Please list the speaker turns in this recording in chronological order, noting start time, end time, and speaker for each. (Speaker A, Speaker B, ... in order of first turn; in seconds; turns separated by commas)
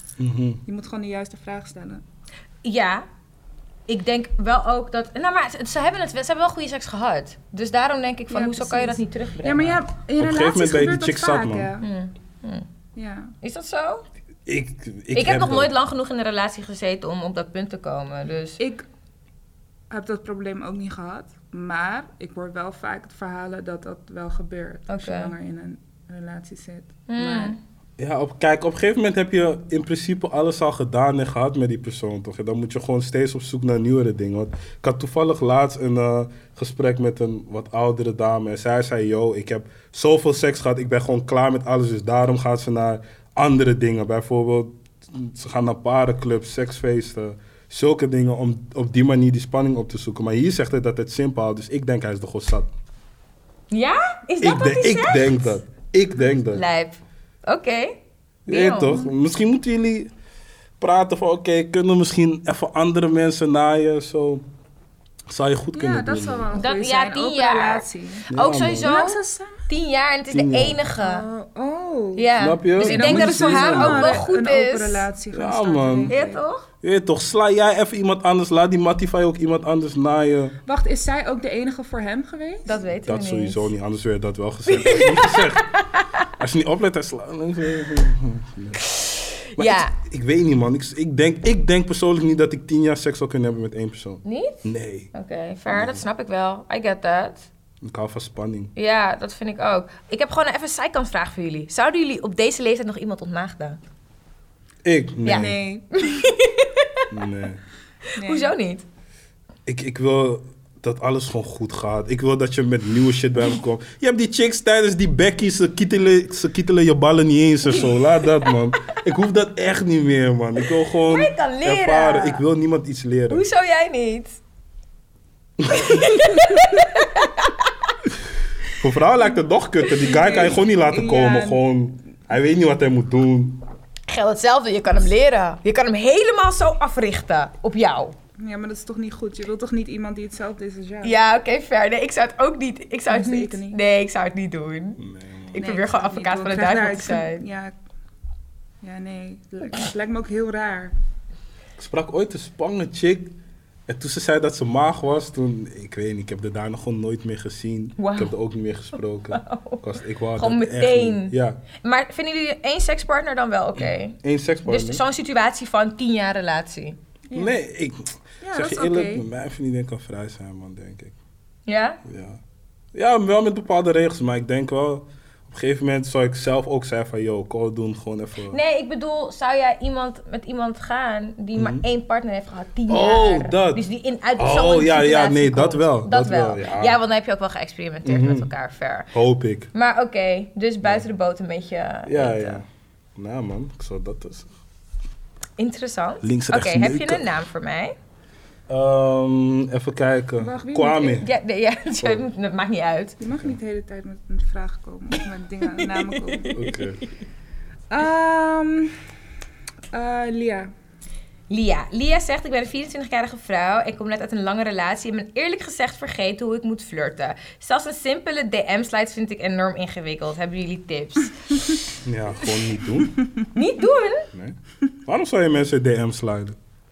Speaker A: 0.2-0.6, Speaker B: 0.7-2.0, Speaker C: 2.6-3.0, Speaker C: 3.9-9.8, Speaker B: 8.3-11.9, Speaker A: 10.2-11.7, Speaker C: 11.8-12.7, Speaker B: 13.0-13.3, Speaker C: 13.4-14.1, Speaker A: 14.5-15.7, Speaker C: 15.1-18.6, Speaker B: 18.6-18.8, Speaker B: 19.9-27.6, Speaker C: 24.9-25.3, Speaker C: 27.1-27.6, Speaker A: 28.0-52.7, Speaker C: 53.7-55.5, Speaker A: 54.4-56.6, Speaker C: 56.5-59.0, Speaker A: 58.5-60.1, Speaker A: 60.8-64.5, Speaker A: 65.3-66.5, Speaker B: 65.7-68.3, Speaker C: 66.5-71.2, Speaker A: 68.3-68.9, Speaker B: 68.8-69.6, Speaker A: 70.3-70.8, Speaker B: 71.0-76.4, Speaker C: 72.2-75.1, Speaker A: 72.4-74.2, Speaker A: 75.3-76.1, Speaker C: 76.1-76.7, Speaker A: 76.8-80.6, Speaker B: 80.7-82.8, Speaker C: 82.7-83.7, Speaker A: 83.1-85.7, Speaker C: 84.7-86.3, Speaker A: 86.4-88.8, Speaker C: 88.8-89.9, Speaker A: 89.6-95.1, Speaker C: 94.2-97.5, Speaker A: 95.7-96.0, Speaker A: 97.8-98.7, Speaker C: 98.8-103.8, Speaker A: 104.8-105.6, Speaker C: 105.2-107.1, Speaker B: 105.3-106.3, Speaker A: 107.1-107.6, Speaker C: 108.2-108.8, Speaker B: 108.2-108.5, Speaker A: 109.7-123.4, Speaker C: 121.1-122.4, Speaker C: 123.3-124.4, Speaker A: 125.6-126.2, Speaker C: 125.7-128.0, Speaker A: 128.8-133.6, Speaker B: 130.0-131.6, Speaker C: 134.1-138.2, Speaker B: 138.4-141.2, Speaker C: 141.0-145.0, Speaker B: 143.1-143.8, Speaker A: 145.0-145.6, Speaker C: 145.5-147.4, Speaker B: 145.6-147.7, Speaker B: 148.8-150.9, Speaker A: 151.8-153.3, Speaker A: 153.9-161.6, Speaker C: 158.0-158.3, Speaker C: 159.3-159.8, Speaker C: 160.4-167.0, Speaker A: 163.8-165.0, Speaker B: 167.3-167.6, Speaker A: 167.3-171.2, Speaker B: 168.4-169.2, Speaker C: 171.7-172.0, Speaker A: 172.1-172.4, Speaker A: 172.9-178.6, Speaker C: 178.5-189.1, Speaker A: 181.6-181.8, Speaker A: 182.9-183.8, Speaker A: 184.4-187.0, Speaker A: 188.1-188.5, Speaker A: 189.1-189.7, Speaker C: 189.7-192.6, Speaker A: 192.1-192.7, Speaker A: 193.2-194.5, Speaker C: 195.6-197.9, Speaker A: 196.2-197.3, Speaker A: 198.7-201.3, Speaker B: 200.4-201.2, Speaker C: 201.1-203.2, Speaker B: 203.2-206.6, Speaker C: 205.8-207.0, Speaker A: 206.5-207.0, Speaker B: 207.9-208.9, Speaker B: 209.9-210.7, Speaker C: 211.5-221.9, Speaker A: 222.0-223.2, Speaker C: 223.5-224.3, Speaker A: 224.3-226.6